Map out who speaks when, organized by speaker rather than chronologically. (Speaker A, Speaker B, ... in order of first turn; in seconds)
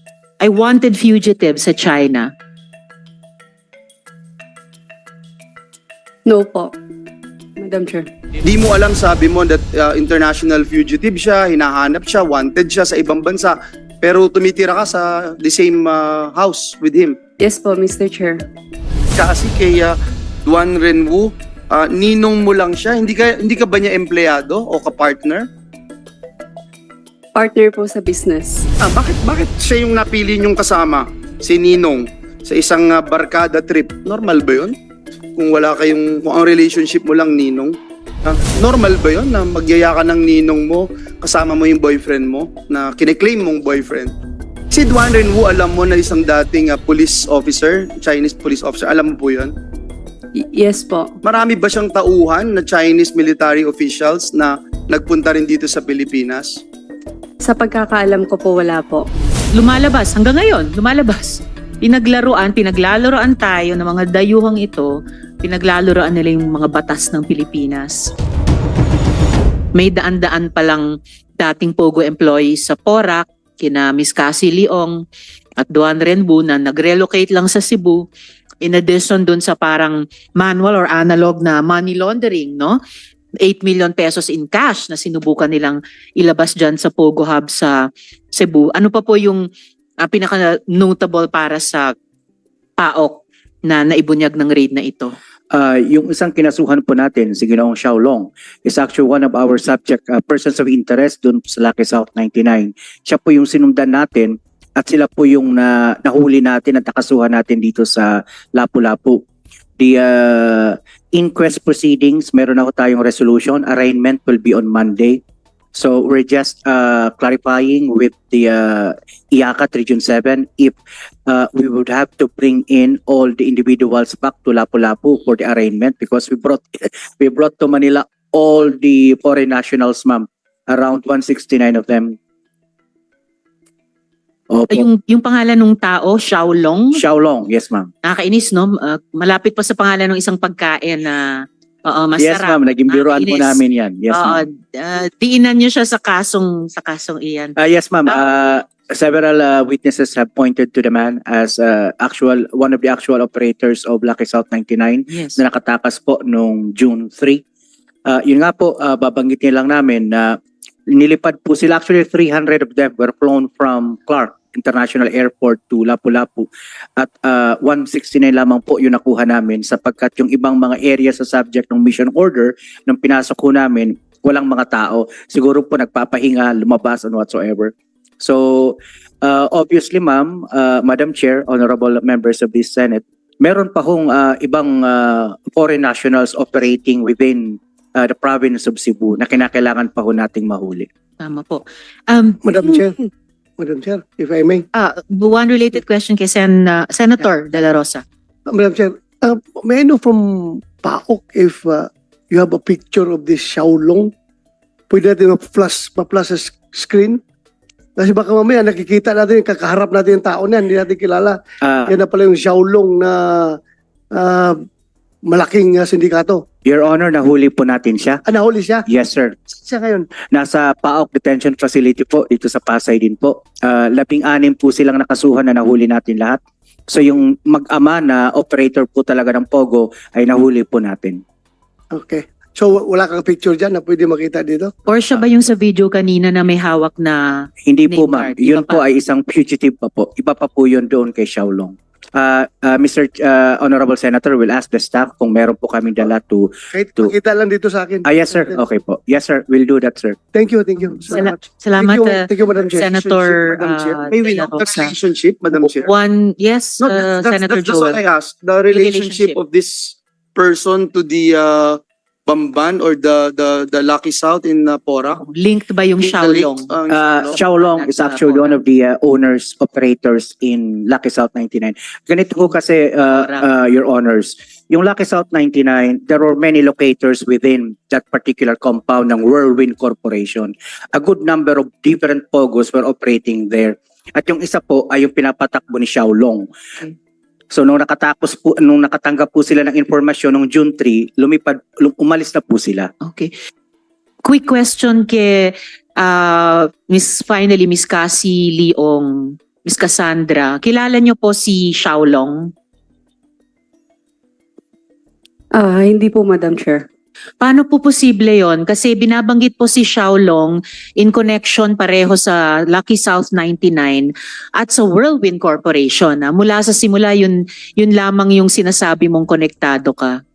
Speaker A: 0.4-2.3, 59.5-68.1, 69.8-75.0, 75.6-78.0, 78.6-82.8, 83.4-89.5, 90.0-91.9, 92.8-95.1, 134.7-137.0, 138.0-148.2, 191.2-192.9, 194.7-198.0, 234.9-238.8, 251.1-254.9, 255.6-258.0, 258.7-259.4, 265.2-266.7, 267.2-268.6, 273.1-273.4, 293.0-293.3, 294.2-302.5, 307.4-320.2
Speaker B: 6.2-6.7, 7.6-8.1, 17.4-18.4, 27.3-28.7, 50.4-51.1, 57.4-59.0, 305.5-306.9
Speaker C: 8.4-17.2, 19.1-25.5, 28.8-34.7, 35.4-44.1, 44.7-49.5, 51.2-56.6, 253.0-255.9, 256.8-265.2, 266.0-267.3
Speaker D: 95.5-109.2, 109.8-115.2, 115.8-132.2, 134.5-134.9, 136.9-137.9, 142.2-144.4, 147.6-157.4, 158.1-190.9, 211.6-212.0, 216.6-218.2, 218.8-219.5, 220.3-231.2, 237.6-247.2, 248.0-250.2, 266.9-286.5, 287.5-292.9
Speaker E: 192.4-192.9, 193.6-194.6, 198.5-200.2, 200.8-204.1, 204.9-207.2, 208.0-211.3, 212.0-213.1, 214.2-214.5, 215.3-216.4, 218.3-218.8, 219.7-220.0, 231.9-234.7, 246.8-248.0, 250.3-252.9